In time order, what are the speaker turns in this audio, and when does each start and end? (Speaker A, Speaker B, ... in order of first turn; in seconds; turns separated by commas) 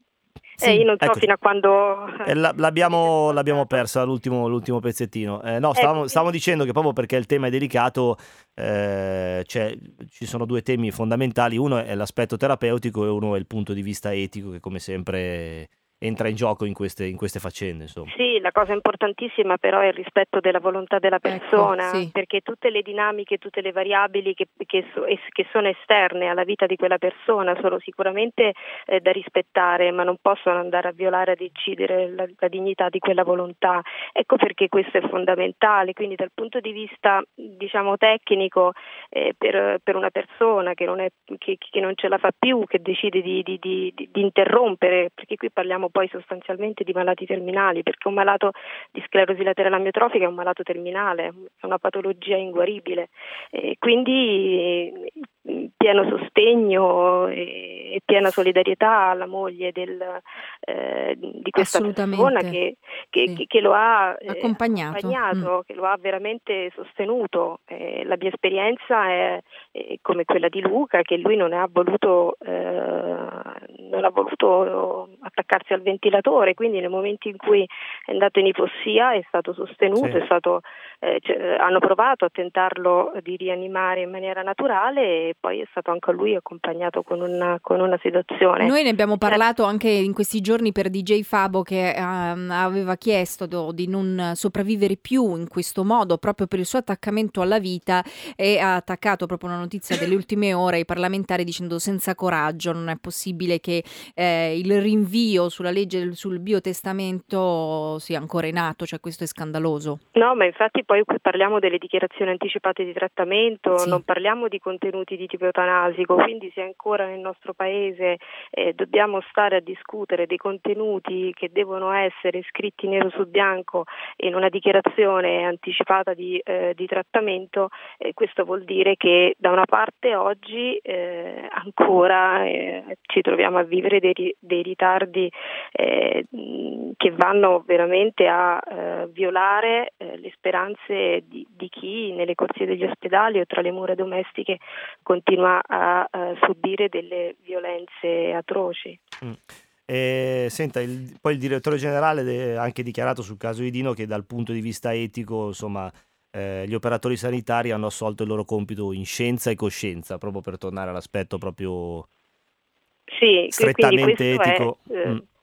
Speaker A: 0.6-3.8, Speaker B: 1.0-1.3, Speaker B: 2.2-18.1, Speaker A: 5.8-6.2, Speaker A: 18.1-89.4, Speaker C: 21.2-22.1, Speaker C: 61.6-62.6, Speaker C: 64.3-65.5, Speaker C: 88.6-110.0, Speaker A: 110.2-149.0, Speaker C: 113.8-114.0, Speaker B: 149.2-162.1, Speaker A: 163.1-165.2, Speaker B: 163.5-165.2